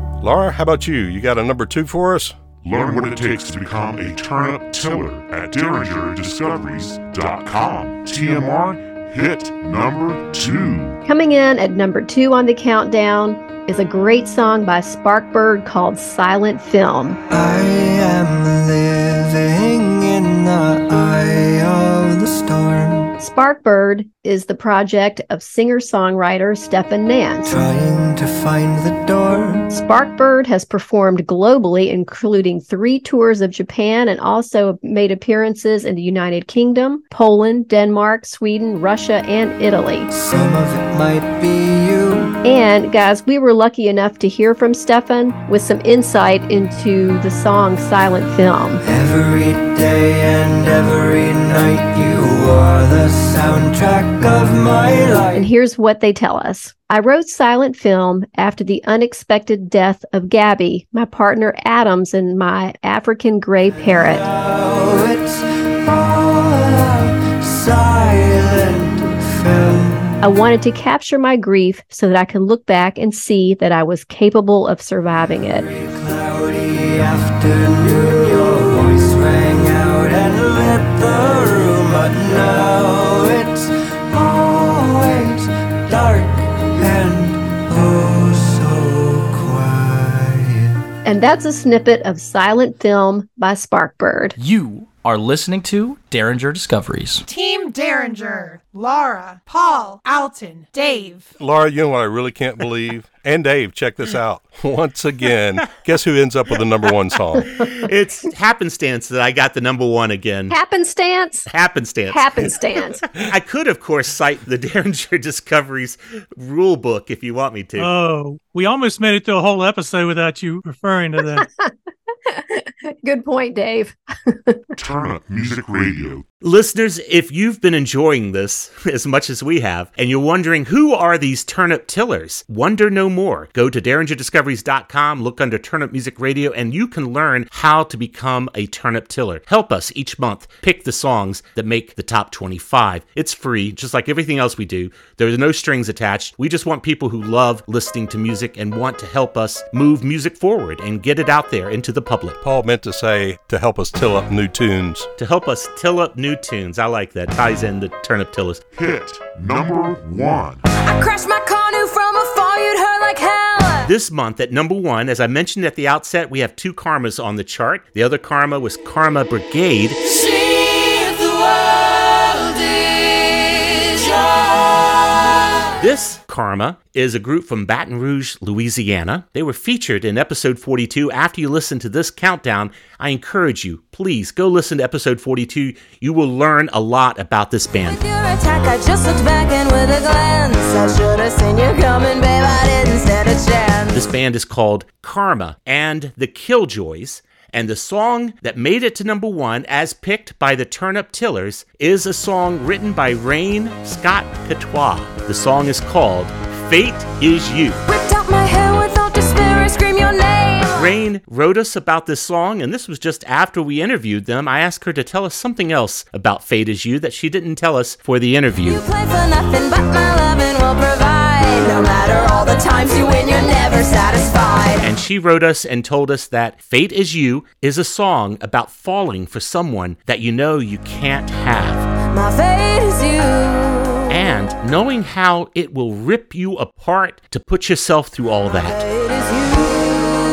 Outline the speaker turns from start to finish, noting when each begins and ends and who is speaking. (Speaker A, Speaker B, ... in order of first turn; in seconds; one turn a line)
Speaker A: 0.2-2.4
Speaker B: 2.6-11.0
Speaker C: 11.0-17.2
Speaker D: 17.3-23.1
Speaker C: 23.2-27.5
Speaker D: 27.4-29.7
Speaker C: 29.7-40.1
Speaker D: 40.1-42.4
Speaker C: 42.4-48.8
Speaker D: 48.8-55.5
Speaker C: 55.3-64.2
Speaker D: 63.8-70.2
Speaker C: 70.2-75.7
Speaker D: 75.4-90.7
Speaker C: 91.0-94.3
Speaker E: 94.4-97.2
Speaker F: 97.2-101.3
Speaker A: 101.4-107.5
Speaker G: 107.4-110.5
Speaker C: 110.5-111.5
Speaker G: 111.5-112.5
Speaker C: 112.1-113.0
Speaker G: 113.1-117.9
Speaker H: 117.8-121.5
Speaker C: 121.4-121.7
Speaker C: 122.3-124.6
Speaker B: 124.8-126.2
Speaker G: 126.4-152.4
Speaker A: 152.4-155.1
Speaker G: 155.2-158.6
Speaker B: 158.7-160.6
Speaker I: 160.8-163.9
Speaker G: 163.8-170.0
Speaker I: 170.1-171.3
Speaker G: 175.8-188.0
Speaker I: 187.9-193.9
Speaker G: 193.9-207.8
Speaker I: 207.9-210.9
Speaker G: 210.7-218.8
Speaker I: 218.7-224.9
Speaker G: 224.8-231.9
Speaker I: 232.1-233.9
Speaker G: 234.1-238.8
Speaker I: 238.9-240.0